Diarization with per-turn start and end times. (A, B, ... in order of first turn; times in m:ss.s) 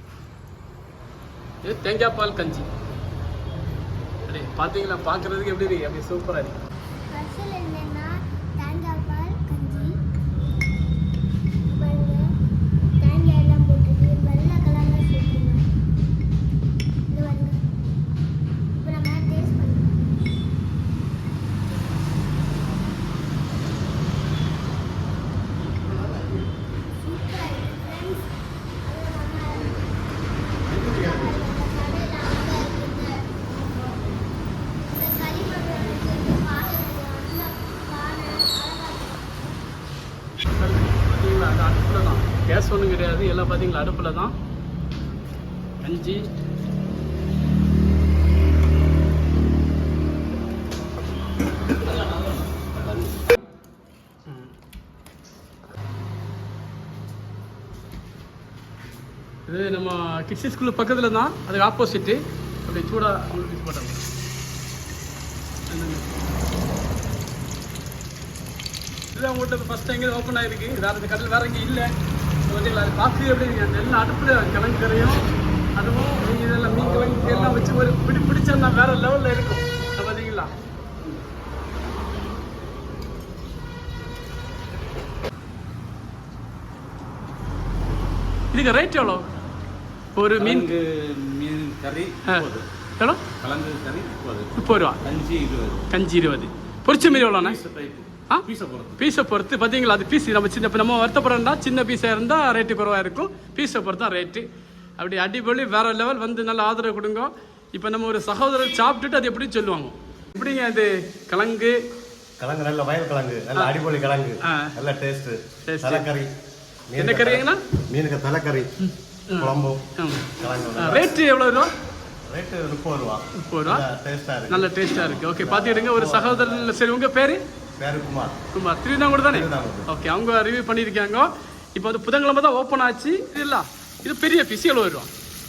0:01.6-0:02.7 A
0:04.3-0:06.6 A
0:07.1-0:10.0 B
0:11.7-0:12.3 B
0:13.0-0:15.7 B
0:17.1-0:17.6 B
0:18.8-0:20.0 B
0:26.0-0:26.3 C
0:27.0-0:28.3 B
0:28.8-0:29.9 B
0:30.7-0:33.1 B
0:30.7-0:31.3 C
0:34.9-0:39.5 B
0:40.6-0:44.3 A
0:45.8-0:46.3 A
0:59.5-1:04.0 A
1:05.7-1:06.1 A
1:09.1-1:11.9 A
1:12.5-1:20.5 A
1:28.5-1:29.3 A
1:30.2-1:30.7 A
1:30.4-1:32.7 D
1:33.4-1:35.8 D
1:34.6-1:35.0 A
1:35.9-1:37.6 A
1:37.0-1:39.0 D
1:39.0-1:44.5 A
1:45.0-1:51.8 A
1:52.4-1:56.3 C
1:54.4-1:54.7 A
1:55.6-1:56.0 A
1:56.9-1:58.7 C
1:57.0-1:57.6 A
1:58.8-2:01.7 A
1:59.4-1:59.8 C
2:00.4-2:01.2 C
2:02.3-2:06.8 C
2:03.4-2:03.9 A
2:04.5-2:07.4 A
2:07.8-2:08.4 C
2:08.5-2:15.1 A
2:09.3-2:09.9 C